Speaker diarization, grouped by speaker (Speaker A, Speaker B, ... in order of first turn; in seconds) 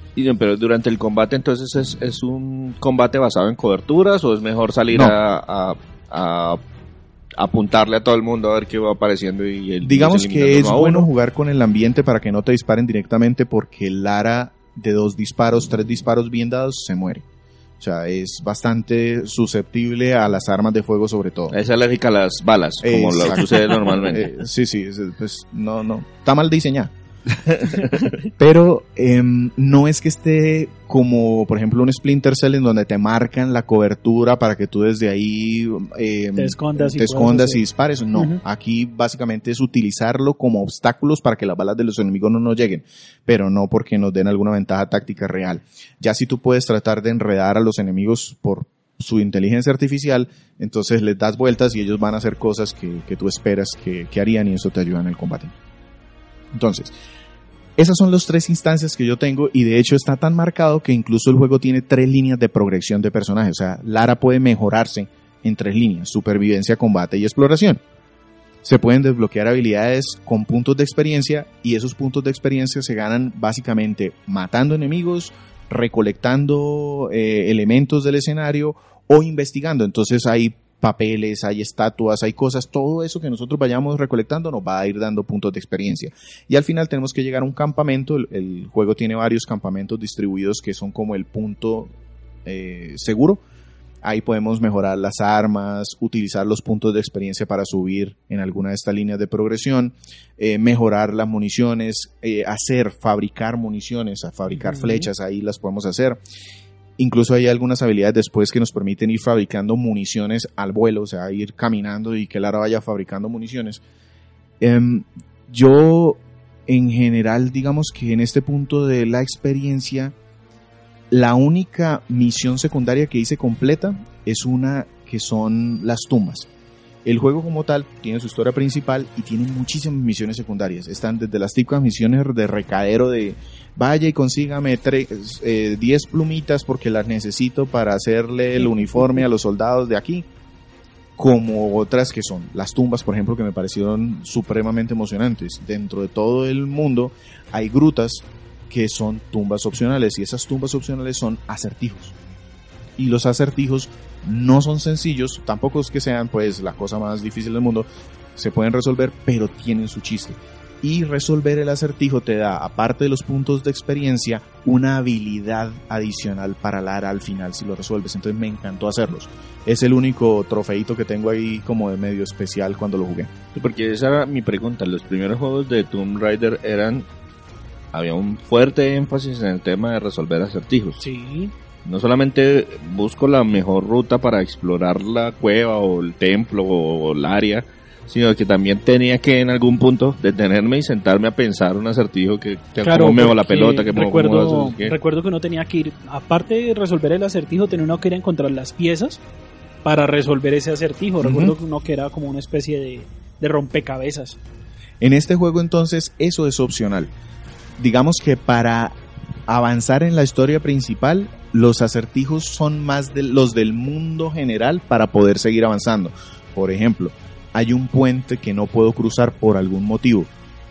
Speaker A: 0.1-6.6, 7.4-11.1, 21.5-24.3, 27.4-28.1, 173.5-177.1, 177.9-181.0, 181.8-194.9
Speaker B: 4.9-5.2, 9.8-17.2, 17.8-21.6, 22.8-26.9, 28.2-55.5, 56.5-56.9, 57.8-67.8, 68.6-91.9, 92.4-93.4, 94.0-106.2, 107.0-113.8, 114.6-120.1, 121.1-126.5, 127.0-140.2, 141.2-152.1, 153.0-173.3, 201.2-201.5, 205.0-207.1, 207.8-208.9, 209.5-220.3
Speaker C: 36.4-37.6, 38.1-38.4, 104.6-105.1, 181.0-181.5, 192.8-199.2, 199.8-204.4